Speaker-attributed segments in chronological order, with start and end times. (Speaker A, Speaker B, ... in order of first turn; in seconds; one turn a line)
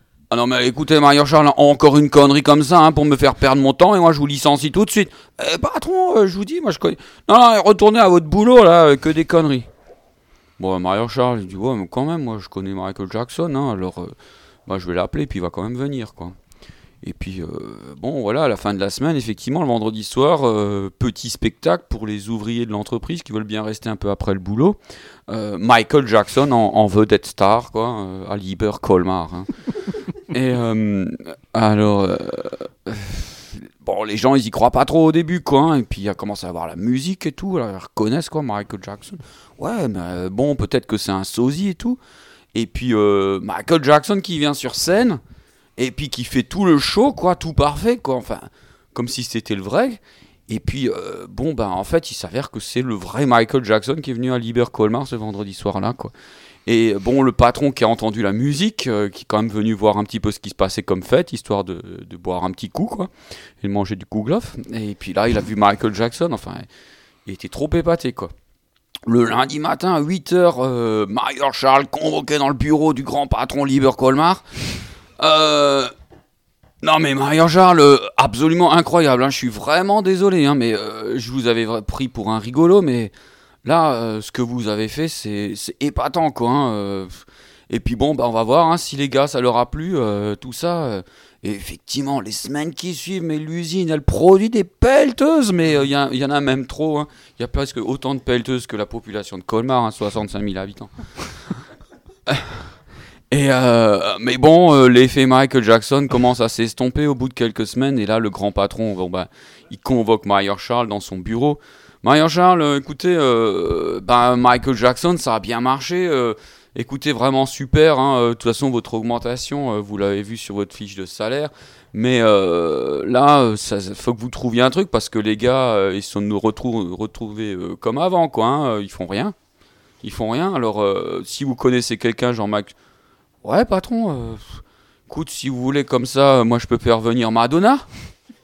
Speaker A: 0.3-9.7
Speaker A: 10.6-14.1
Speaker A: 14.7-16.3
Speaker A: 17.0-29.5
Speaker A: 30.3-42.0
Speaker A: 42.5-45.2
Speaker A: 45.8-56.1
Speaker A: 56.6-63.1
Speaker A: 63.6-66.7
Speaker A: 67.2-68.3
Speaker A: 69.0-74.4
Speaker A: 75.2-75.9
Speaker A: 76.8-83.1
Speaker A: 83.6-100.9
Speaker A: 103.3-129.3
Speaker A: 130.0-132.7
Speaker A: 133.4-137.8